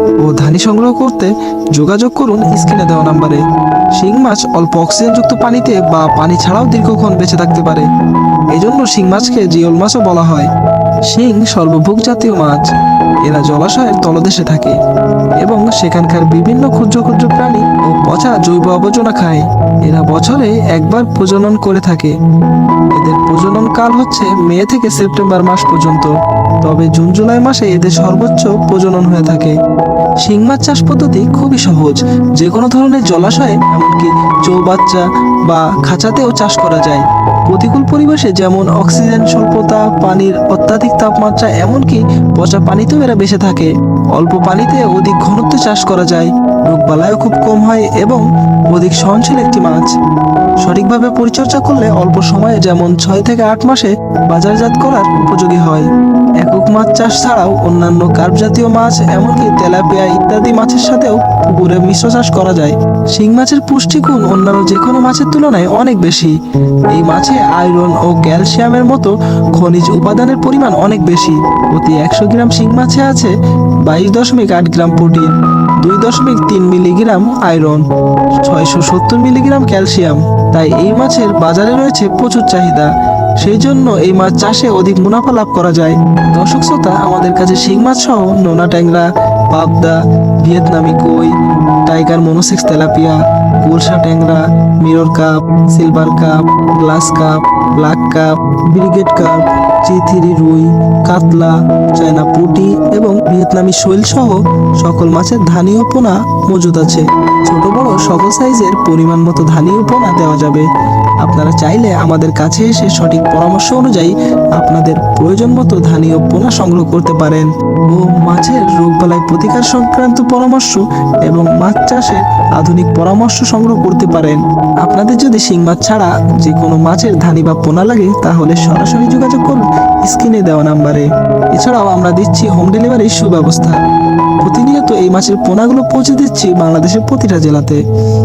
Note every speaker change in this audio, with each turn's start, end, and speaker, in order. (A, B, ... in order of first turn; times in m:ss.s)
0:00.2-0:03.4 A
0:04.0-0:07.9 A
0:08.5-0:10.5 A
0:11.1-0:12.7 A
0:13.2-0:14.8 A
0:15.4-0:22.1 A
0:22.9-0:26.1 A
0:26.6-0:29.5 A
0:30.2-0:49.9 A
0:50.6-0:55.9 A
0:56.4-1:06.3 A
1:06.9-1:13.3 A
1:13.8-1:15.3 A
1:15.8-1:17.8 A
1:18.4-1:22.9 A
1:23.4-1:31.3 A
1:31.8-1:50.6 A
1:51.2-2:13.8 A
2:14.4-2:17.8 A